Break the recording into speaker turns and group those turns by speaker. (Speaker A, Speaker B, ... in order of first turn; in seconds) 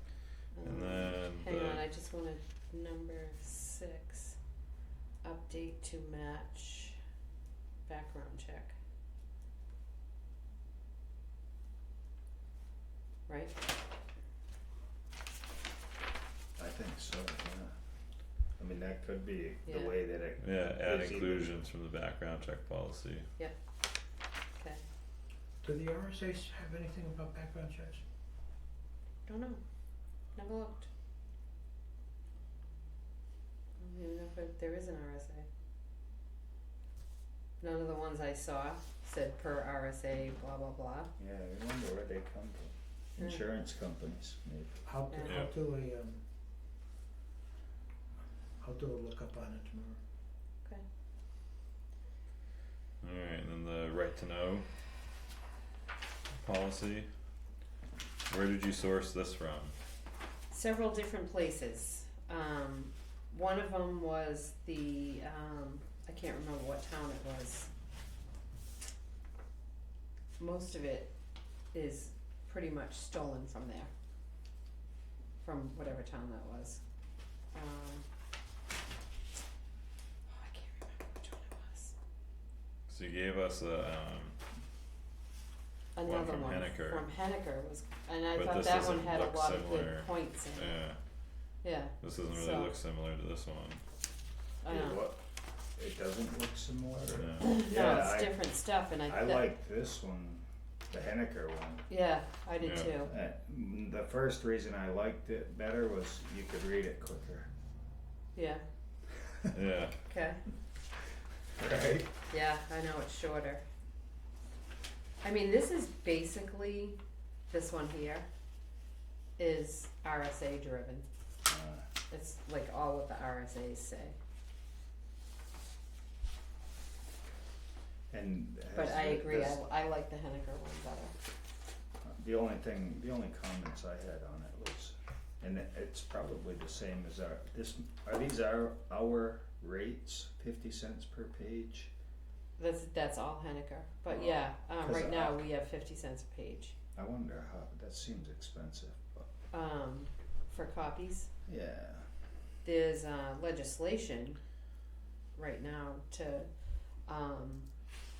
Speaker A: 0.6-4.4, 5.2-7.0, 7.8-8.7, 13.3-13.6, 19.6-19.9, 29.3-29.6, 30.4-30.9, 33.8-35.5, 37.6-41.1, 43.2-43.4, 45.1-45.4, 60.5-67.7, 70.4-71.1, 71.7-73.9, 75.4-76.8, 77.5-78.0, 80.3-81.9, 85.9-90.8, 91.6-92.7, 94.6-95.0, 97.4-99.5, 101.9-103.1, 108.3-108.6, 110.1-110.4, 112.3-113.6, 115.2-117.0, 117.5-118.3, 119.4-121.0, 122.1-124.2, 128.7-131.2, 142.6-146.7, 149.5-151.3, 152.6-154.4, 155.3-156.5, 157.0-157.7
Speaker B: 0.6-1.8, 20.4-23.2, 53.0-54.6, 56.4-57.1, 58.3-59.7, 82.9-84.4, 86.0-87.0, 88.3-91.0, 92.0-93.8, 97.1-97.6, 102.6-102.9, 109.5-109.9
Speaker C: 16.6-17.7, 18.6-21.5, 41.2-44.9, 94.7-95.2, 95.8-98.5, 99.0-101.9, 103.0-107.5, 111.5-112.1, 121.5-121.8, 128.1-129.6, 132.0-141.9, 144.1-145.4, 146.9-149.3, 151.4-152.1
Speaker D: 25.6-28.0, 44.9-46.2, 48.6-50.0